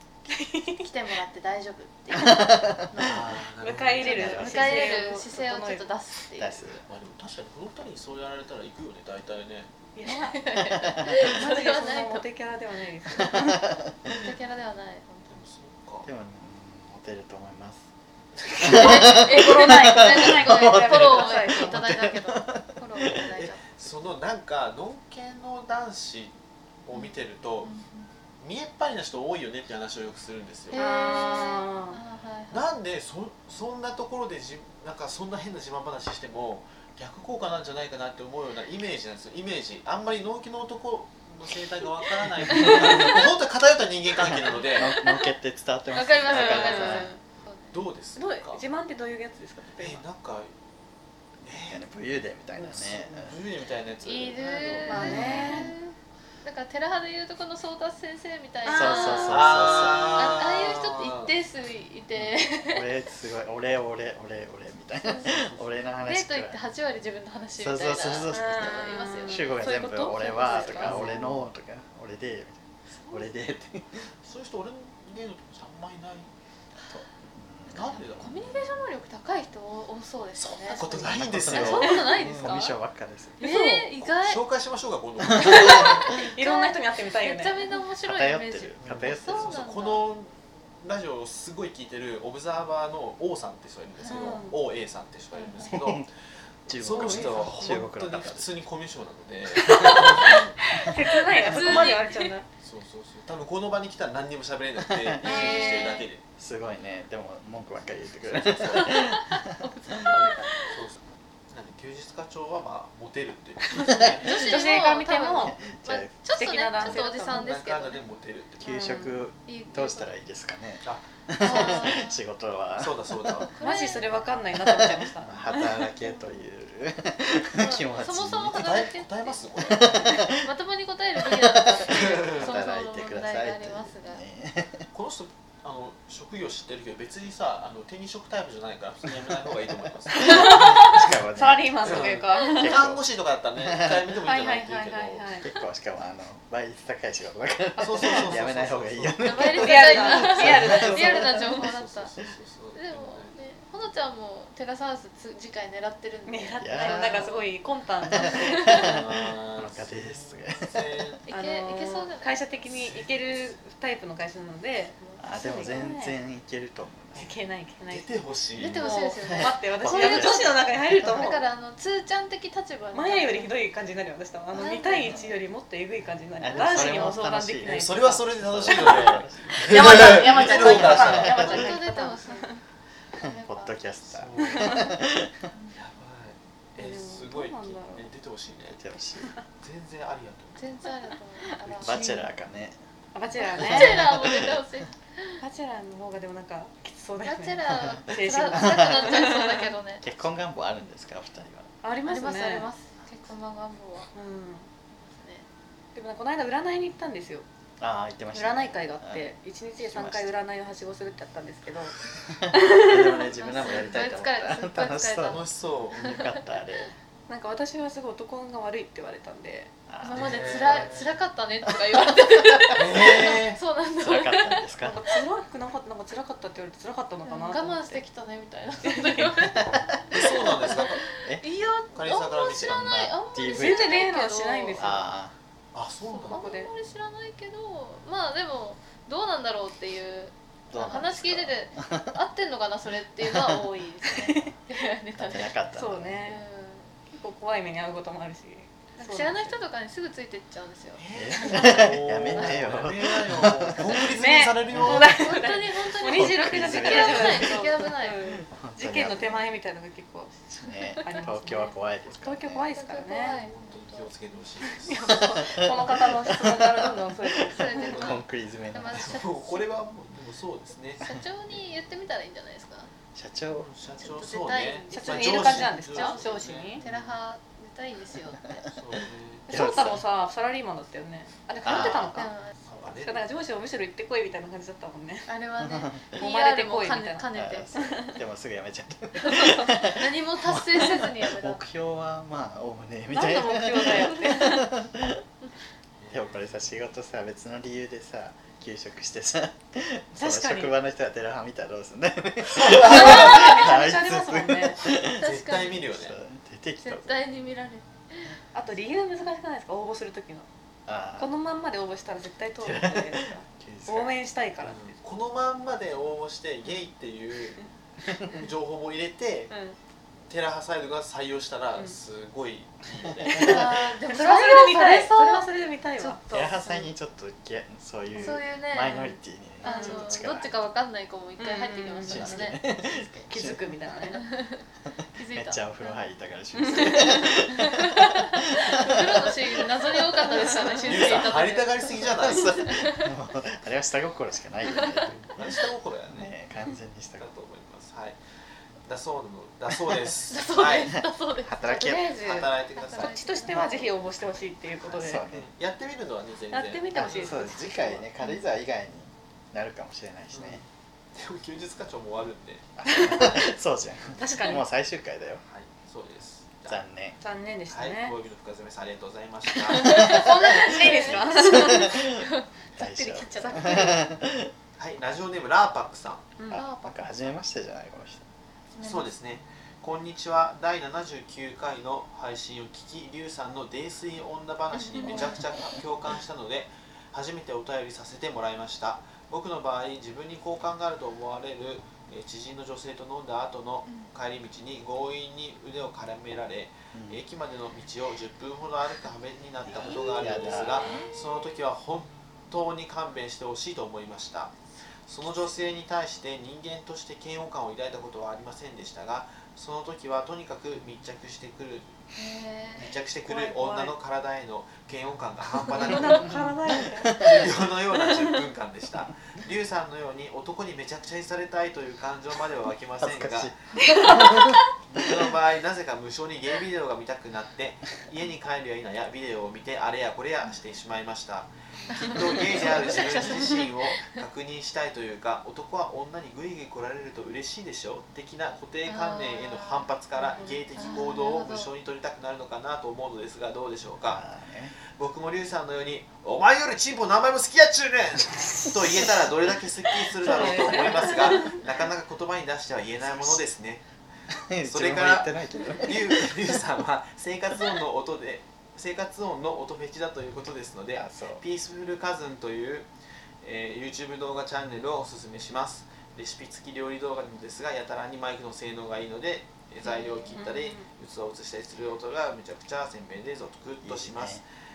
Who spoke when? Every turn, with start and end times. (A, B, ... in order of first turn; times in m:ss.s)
0:00.3-0:00.9 A
0:00.8-0:03.4 B
0:02.1-0:03.0 C
0:03.0-0:04.6 D
0:03.6-0:05.9 A
0:04.0-0:04.9 C
0:04.1-0:06.8 B
0:06.4-0:06.8 C
0:06.9-0:09.7 D
0:10.0-0:10.5 A
0:10.1-0:12.3 B
0:11.0-0:13.6 A
0:13.2-0:14.2 C
0:14.1-0:15.4 B
0:15.3-0:16.1 D
0:16.0-0:17.9 C
0:18.5-0:23.3 C
0:18.6-0:23.9 B
0:18.7-0:21.8 A
0:23.1-0:27.7 D
0:26.9-0:28.1 B
0:28.4-0:30.8 D
0:30.7-0:32.7 B
0:30.7-0:32.0 A
0:32.5-0:45.0 D
0:44.3-0:47.1 C
0:45.0-0:45.2 B
0:45.9-0:47.8 B
0:46.3-0:47.2 A
0:47.7-0:48.6 D
0:48.2-0:50.0 A
0:49.8-0:50.5 D
0:51.4-0:51.8 D
0:51.6-0:53.4 C
0:52.6-0:55.4 D
0:54.0-1:02.9 B
0:54.9-0:55.7 A
0:55.0-0:55.7 C
0:58.7-0:59.3 A
0:58.7-1:00.4 C
0:59.2-1:01.3 D
1:02.7-1:06.6 C
1:05.3-1:05.7 D
1:06.0-1:09.8 B
1:07.6-1:14.1 C
1:08.3-1:11.3 A
1:10.4-1:11.3 B
1:12.9-1:13.3 D
1:14.2-1:16.3 D
1:17.2-1:18.3 C
1:17.7-1:18.6 D
1:17.9-1:22.8 B
1:20.4-1:22.6 D
1:20.9-1:23.4 C
1:23.4-1:23.9 A
1:23.4-1:24.4 B
1:24.0-1:26.2 D
1:25.3-1:26.0 C
1:25.5-1:27.7 A
1:25.6-1:30.1 B
1:28.0-1:29.6 C
1:28.8-1:36.1 D
1:34.0-1:34.4 B
1:34.1-1:34.6 A
1:35.3-1:35.8 B
1:35.7-1:36.1 C
1:36.7-1:38.5 C
1:36.7-1:40.6 D
1:37.0-1:37.4 A
1:39.7-1:42.4 A
1:39.7-1:40.2 C
1:41.4-1:41.9 D
1:41.4-1:42.3 B
1:42.6-1:46.2 D
1:44.9-1:45.6 C
1:45.2-1:46.1 B
1:45.3-1:45.9 A
1:46.4-1:50.2 C
1:48.2-1:49.1 D
1:48.7-1:50.8 B
1:50.6-1:54.6 D
1:53.8-1:55.6 A
1:54.2-1:58.0 B
1:55.4-1:56.1 C
1:56.3-1:57.5 A
1:57.3-1:59.0 D
1:58.6-2:03.5 C
1:58.7-2:00.1 B
1:58.7-1:59.1 A
2:00.8-2:02.0 D
2:01.4-2:02.2 B
2:02.8-2:03.5 D
2:03.5-2:04.2 B
2:03.6-2:05.8 A
2:04.2-2:08.6 C
2:06.0-2:06.4 B
2:07.6-2:09.7 B
2:08.5-2:10.1 D
2:09.6-2:10.5 C
2:10.3-2:14.2 B
2:11.2-2:14.9 C
2:11.9-2:12.6 D
2:14.9-2:20.8 D
2:20.1-2:22.8 A
2:20.2-2:24.2 C
2:21.8-2:25.3 D
2:22.3-2:22.6 B
2:24.2-2:25.5 A
2:25.4-2:31.6 C
2:27.8-2:29.7 D
2:28.0-2:28.3 A
2:29.2-2:32.1 B
2:29.6-2:31.3 A
2:30.5-2:30.8 D
2:31.5-2:33.3 D
2:32.8-2:37.5 B
2:36.3-2:38.8 A
2:36.6-2:37.4 C
2:38.1-2:41.2 C
2:38.7-2:41.2 D
2:41.3-2:42.4 B
2:41.3-2:46.2 A
2:42.6-2:43.6 D
2:45.2-2:47.3 C
2:47.2-2:48.1 A
2:47.9-2:48.9 D
2:48.6-2:53.5 B
2:48.8-2:51.4 A
2:49.2-2:50.7 C
2:52.9-2:58.9 A
2:54.6-2:55.2 B
2:56.4-3:01.7 C
2:56.6-2:57.0 D
2:57.6-3:01.8 D
2:59.7-3:02.6 A
3:00.0-3:02.6 B
3:03.2-3:03.8 B
3:03.2-3:05.5 C
3:04.0-3:04.9 D
3:04.5-3:04.9 A
3:05.8-3:08.8 D
3:06.8-3:08.1 A
3:08.7-3:09.3 C
3:09.6-3:10.8 D
3:10.6-3:12.2 B
3:11.8-3:12.8 C
3:11.9-3:12.2 A
3:13.1-3:14.1 A
3:13.5-3:14.6 C
3:13.6-3:15.4 B
3:15.4-3:19.6 A
3:17.2-3:20.0 B
3:17.7-3:18.0 C
3:18.5-3:19.3 C
3:20.0-3:21.7 C
3:21.8-3:22.7 A
3:22.0-3:24.1 B
3:24.1-3:24.7 A
3:24.9-3:25.5 B
3:26.0-3:27.4 A
3:27.8-3:30.4 C
3:28.3-3:31.9 A
3:32.2-3:37.0 C
3:32.5-3:33.1 A
3:33.2-3:36.4 B
3:35.2-3:36.2 D
3:37.3-3:39.7 A
3:39.9-3:41.0 C
3:40.0-3:44.7 B
3:40.2-3:41.1 D
3:41.7-3:43.0 C
3:42.7-3:43.6 D
3:44.0-3:45.0 C
3:44.8-3:48.0 A
3:47.3-3:54.9 B
3:48.8-3:49.3 A
3:49.2-3:50.2 C
3:50.1-3:51.1 D
3:51.2-3:51.5 C
3:51.9-3:52.8 D
3:52.5-3:54.0 C
3:53.4-3:55.1 A
3:54.7-3:55.3 C
3:55.7-3:56.5 D
3:56.1-4:05.5 B
3:56.3-3:56.7 A
4:00.7-4:02.1 C
4:03.2-4:04.5 C
4:05.2-4:06.3 C
4:05.8-4:06.4 A
4:06.2-4:06.9 B
4:07.1-4:09.6 A
4:09.0-4:12.9 B
4:11.0-4:15.2 D
4:11.1-4:14.1 C
4:14.2-4:20.4 A
4:14.7-4:15.1 C
4:15.0-4:18.3 B
4:16.1-4:17.7 C
4:18.3-4:19.5 C
4:20.5-4:22.7 C
4:21.0-4:23.4 A
4:22.7-4:24.1 B
4:23.2-4:25.4 D
4:24.8-4:27.9 A
4:25.4-4:29.2 C
4:27.5-4:29.7 B
4:27.7-4:28.2 D
4:28.9-4:31.7 D
4:31.0-4:32.9 B
4:33.2-4:33.7 C
4:33.5-4:37.2 D
4:34.0-4:38.7 B
4:34.9-4:36.8 A
4:38.7-4:39.8 D
4:39.5-4:42.3 A
4:39.5-4:40.0 C
4:41.6-4:42.3 C
4:42.2-4:42.6 B
4:42.6-4:43.3 D
4:43.0-4:45.3 A
4:45.3-4:47.7 B
4:45.6-4:46.0 C
4:46.2-4:47.3 A
4:47.3-4:55.2 C
4:47.8-4:48.2 A
4:49.2-4:51.6 B
4:53.1-4:54.7 A
4:56.0-4:56.5 D
4:56.1-5:07.2 C
5:00.2-5:00.7 A
5:02.5-5:03.4 D
5:02.8-5:04.8 A
5:05.2-5:05.9 B
5:05.2-5:06.2 D
5:06.8-5:08.3 B
5:08.5-5:10.5 A
5:10.9-5:11.4 C
5:11.2-5:15.0 A
5:12.6-5:14.2 C
5:14.6-5:17.6 D
5:18.3-5:19.5 D
5:19.5-5:19.8 A
5:20.3-5:23.8 D
5:23.3-5:23.7 C
5:23.3-5:26.8 B
5:23.4-5:26.5 A
5:26.3-5:30.6 C
5:28.2-5:33.5 B
5:29.6-5:30.2 A
5:31.4-5:32.5 A
5:32.1-5:33.8 C
5:33.3-5:34.2 A
5:34.1-5:34.6 B
5:35.2-5:36.0 B
5:35.3-5:40.4 C
5:36.6-5:37.5 A
5:36.7-5:38.0 B
5:38.6-5:43.1 B
5:40.5-5:40.8 A
5:40.8-5:42.7 D
5:42.1-5:45.5 C
5:44.7-5:45.0 B
5:45.2-5:46.4 D
5:46.1-5:47.3 C
5:47.2-5:48.2 D
5:48.8-5:51.0 D
5:50.3-5:52.0 B
5:50.6-5:52.2 C
5:51.6-5:55.2 A
5:52.2-5:53.2 D
5:52.8-5:54.0 B
5:54.8-5:55.5 C
5:55.2-5:57.6 D
5:56.5-5:58.0 A
5:56.9-6:00.6 C
6:00.3-6:03.4 D
6:02.8-6:05.4 C
6:02.9-6:03.3 A
6:04.2-6:04.6 A
6:05.4-6:06.8 D
6:06.7-6:07.2 C
6:07.2-6:08.2 A
6:07.7-6:10.3 D
6:09.6-6:12.0 A
6:09.8-6:12.4 B
6:10.0-6:14.5 C
6:12.8-6:14.0 A
6:14.8-6:16.3 D
6:16.4-6:16.6 A
6:16.5-6:18.3 C
6:16.5-6:17.1 B
6:18.7-6:19.1 B
6:18.8-6:44.5 D
6:24.7-6:25.4 A
6:25.0-6:25.4 B
6:36.9-6:37.2 C
6:39.8-6:41.0 C
6:39.8-6:41.1 B
6:45.1-6:52.0 D
6:52.2-6:52.9 B
6:52.8-6:56.5 D
6:53.2-6:54.0 A
6:55.7-6:57.4 A
6:57.1-7:03.6 D
7:03.0-7:05.3 C
7:03.9-7:04.3 A
7:04.9-7:24.2 D
7:11.9-7:14.2 B
7:18.8-7:21.7 B
7:20.3-7:20.6 A
7:24.0-7:24.8 C
7:24.9-7:33.8 D
7:30.2-7:31.6 A
7:33.0-7:33.5 C
7:34.3-7:36.6 C
7:34.7-7:42.9 D
7:41.0-7:41.4 C
7:43.4-7:54.4 D
7:49.8-7:50.5 B
7:50.3-7:50.9 A
7:53.8-7:54.4 C